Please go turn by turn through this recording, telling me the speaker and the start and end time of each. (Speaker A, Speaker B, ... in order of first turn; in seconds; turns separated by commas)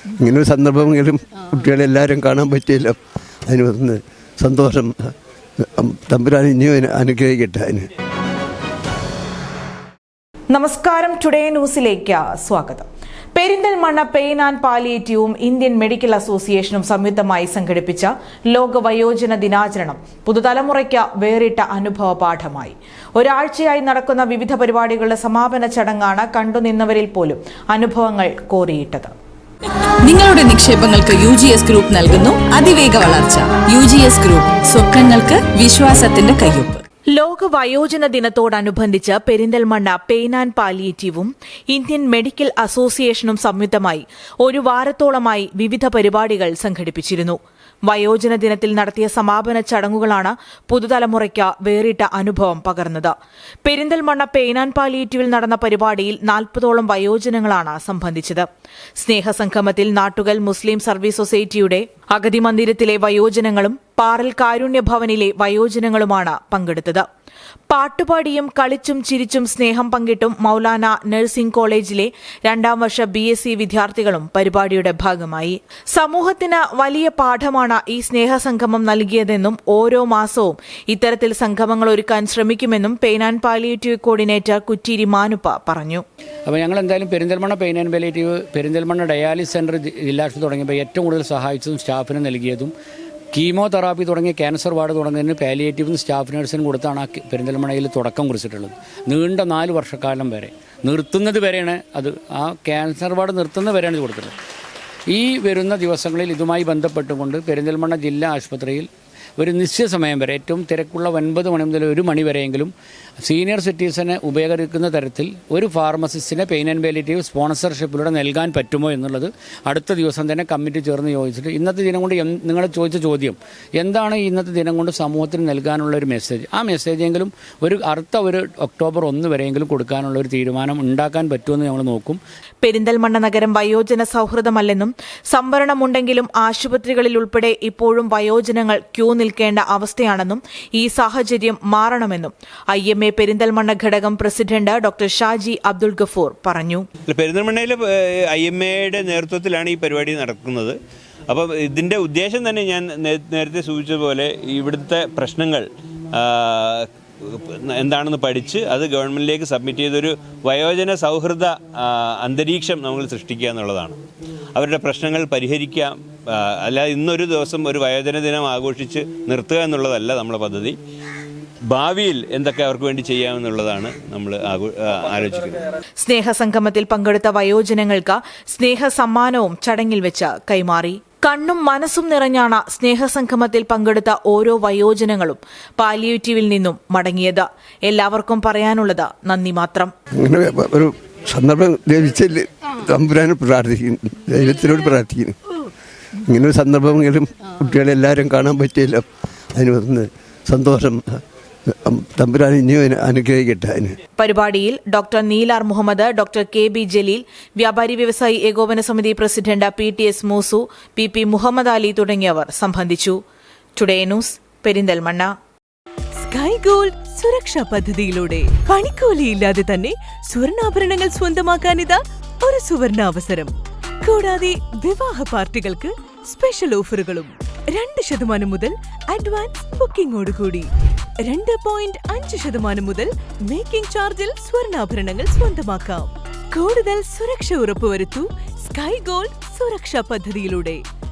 Speaker A: 0.2-5.1, Speaker A: 5.8-7.9, Speaker B: 10.5-29.1, Speaker C: 30.0-36.8, Speaker B: 37.1-58.5, Speaker B: 59.0-67.0, Speaker B: 67.7-86.0, Speaker D: 86.5-92.7, Speaker D: 93.3-104.3, Speaker D: 105.1-132.2, Speaker B: 132.6-146.9, Speaker E: 147.1-150.8, Speaker E: 151.3-164.0, Speaker E: 164.6-170.8, Speaker E: 171.7-175.7, Speaker B: 176.0-189.9, Speaker A: 190.2-195.4, Speaker A: 196.2-201.2, Speaker A: 201.8-204.0, Speaker B: 204.2-213.2, Speaker B: 213.8-215.3, Speaker F: 216.2-230.7, Speaker F: 231.2-240.8